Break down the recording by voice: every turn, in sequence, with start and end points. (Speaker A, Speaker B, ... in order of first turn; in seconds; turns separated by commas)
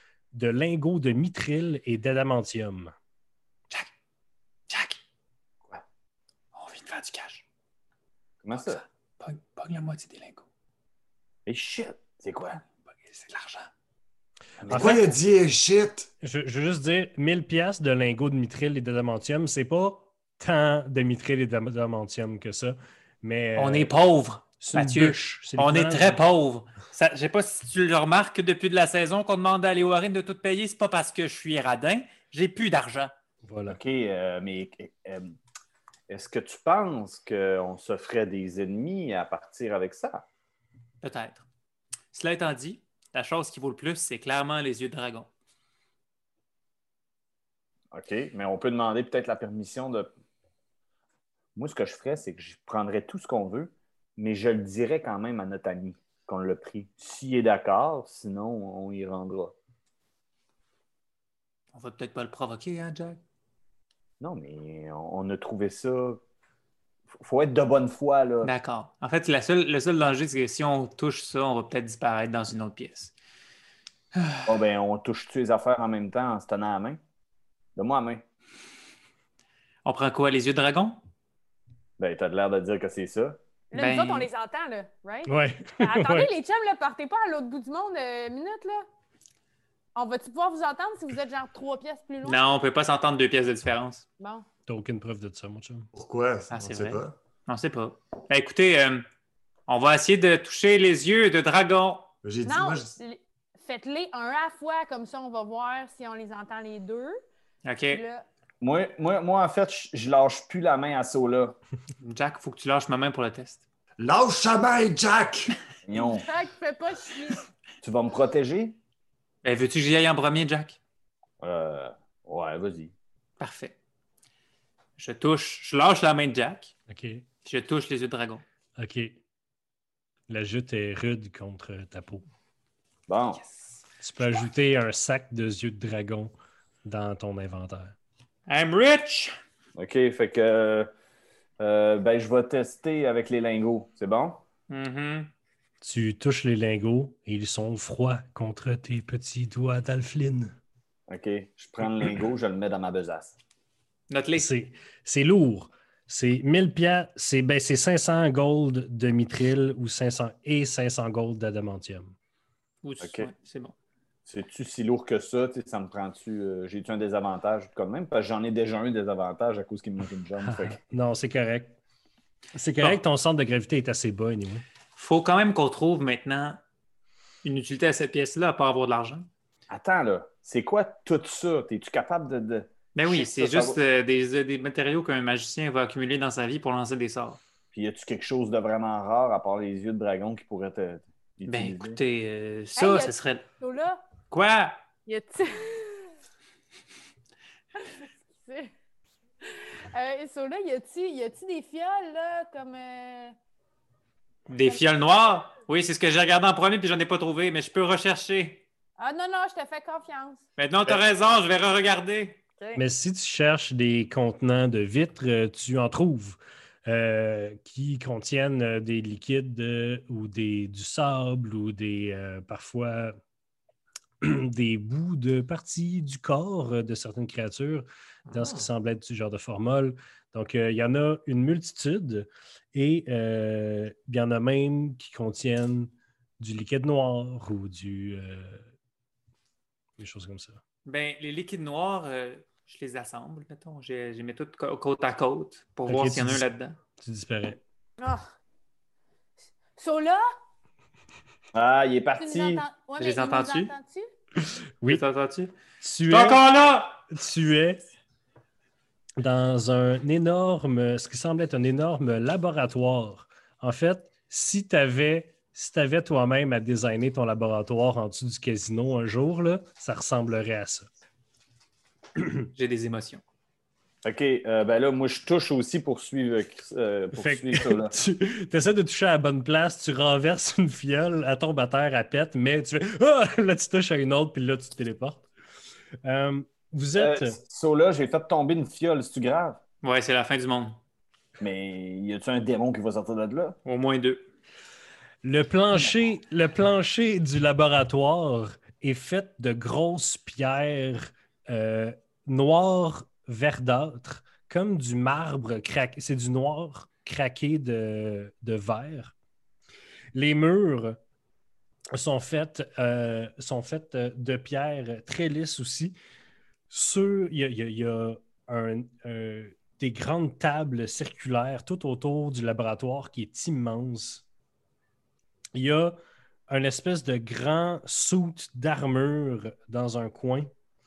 Speaker A: 0.3-2.9, Speaker B: 4.7-5.0, Speaker B: 6.5-7.4, Speaker C: 8.4-8.8, Speaker B: 8.5-10.4, Speaker C: 11.4-12.6, Speaker B: 12.9-13.7, Speaker C: 14.6-15.0, Speaker D: 14.7-16.1, Speaker A: 14.7-15.1, Speaker A: 16.2-23.9, Speaker B: 23.6-33.1, Speaker A: 24.6-26.2, Speaker A: 33.4-33.8, Speaker C: 33.7-35.3, Speaker C: 36.1-40.2, Speaker B: 41.0-41.5, Speaker B: 42.1-45.3, Speaker C: 47.9-50.1, Speaker C: 51.5-59.5, Speaker B: 61.7-63.2, Speaker C: 64.2-66.2, Speaker C: 67.2-68.5, Speaker B: 68.4-73.1, Speaker B: 74.1-74.6, Speaker C: 74.5-77.0, Speaker C: 77.8-78.2, Speaker B: 79.8-81.0, Speaker C: 82.0-83.4, Speaker E: 83.7-88.8, Speaker B: 83.7-84.3, Speaker A: 85.2-86.3, Speaker E: 90.0-92.4, Speaker B: 92.2-94.0, Speaker E: 94.2-94.5, Speaker A: 94.7-95.9, Speaker D: 95.9-97.1, Speaker B: 96.5-99.0, Speaker B: 99.7-102.1, Speaker D: 102.2-103.0, Speaker E: 102.4-107.2, Speaker B: 107.6-108.0, Speaker E: 107.9-108.2, Speaker C: 108.6-111.5, Speaker B: 112.0-113.6, Speaker D: 114.0-115.6, Speaker C: 115.8-116.3, Speaker E: 115.9-117.5, Speaker C: 117.8-118.8, Speaker B: 119.4-120.8, Speaker C: 121.4-122.9, Speaker B: 123.4-123.8, Speaker B: 125.0-126.7, Speaker A: 126.9-127.2, Speaker B: 127.4-128.4, Speaker A: 128.8-129.2, Speaker A: 130.3-132.2, Speaker C: 133.1-133.4, Speaker A: 134.0-136.3, Speaker A: 136.8-137.9, Speaker B: 138.5-139.3, Speaker C: 139.8-140.9, Speaker C: 141.6-144.4, Speaker B: 144.7-145.3, Speaker A: 145.8-150.6, Speaker C: 151.1-153.4, Speaker B: 154.1-154.5, Speaker A: 154.3-162.1, Speaker B: 162.8-163.7, Speaker C: 163.0-163.3, Speaker C: 164.2-170.8, Speaker A: 170.4-171.8, Speaker A: 172.5-174.6, Speaker B: 174.9-176.6, Speaker B: 177.4-179.3, Speaker C: 179.7-183.8, Speaker B: 182.9-187.4, Speaker C: 187.7-192.0, Speaker B: 191.4-193.4, Speaker E: 192.8-194.0, Speaker B: 194.3-194.8, Speaker E: 195.1-196.1, Speaker E: 197.8-198.7, Speaker E: 199.4-203.3, Speaker B: 204.5-208.6, Speaker E: 209.0-210.4, Speaker B: 210.6-212.4, Speaker A: 212.8-223.2, Speaker A: 224.2-238.7, Speaker D: 228.3-228.7, Speaker A: 240.0-240.6, Speaker B: 240.8-246.8, Speaker A: 245.9-246.4, Speaker A: 247.0-247.6, Speaker E: 248.0-248.2, Speaker E: 249.8-250.2, Speaker C: 251.5-252.6, Speaker E: 252.2-254.1, Speaker B: 253.0-253.7, Speaker B: 254.8-255.5, Speaker A: 255.8-256.4, Speaker B: 256.1-257.0, Speaker A: 257.1-257.8, Speaker A: 259.2-270.9, Speaker B: 272.5-273.2, Speaker C: 274.0-277.9, Speaker A: 277.1-285.3, Speaker A: 286.0-287.4, Speaker C: 287.0-289.6, Speaker B: 289.8-290.8, Speaker C: 291.4-293.6, Speaker B: 293.6-294.2, Speaker A: 295.2-309.1, Speaker A: 310.1-311.0, Speaker A: 311.9-315.9, Speaker A: 316.7-324.2, Speaker A: 325.5-326.0, Speaker A: 326.5-330.5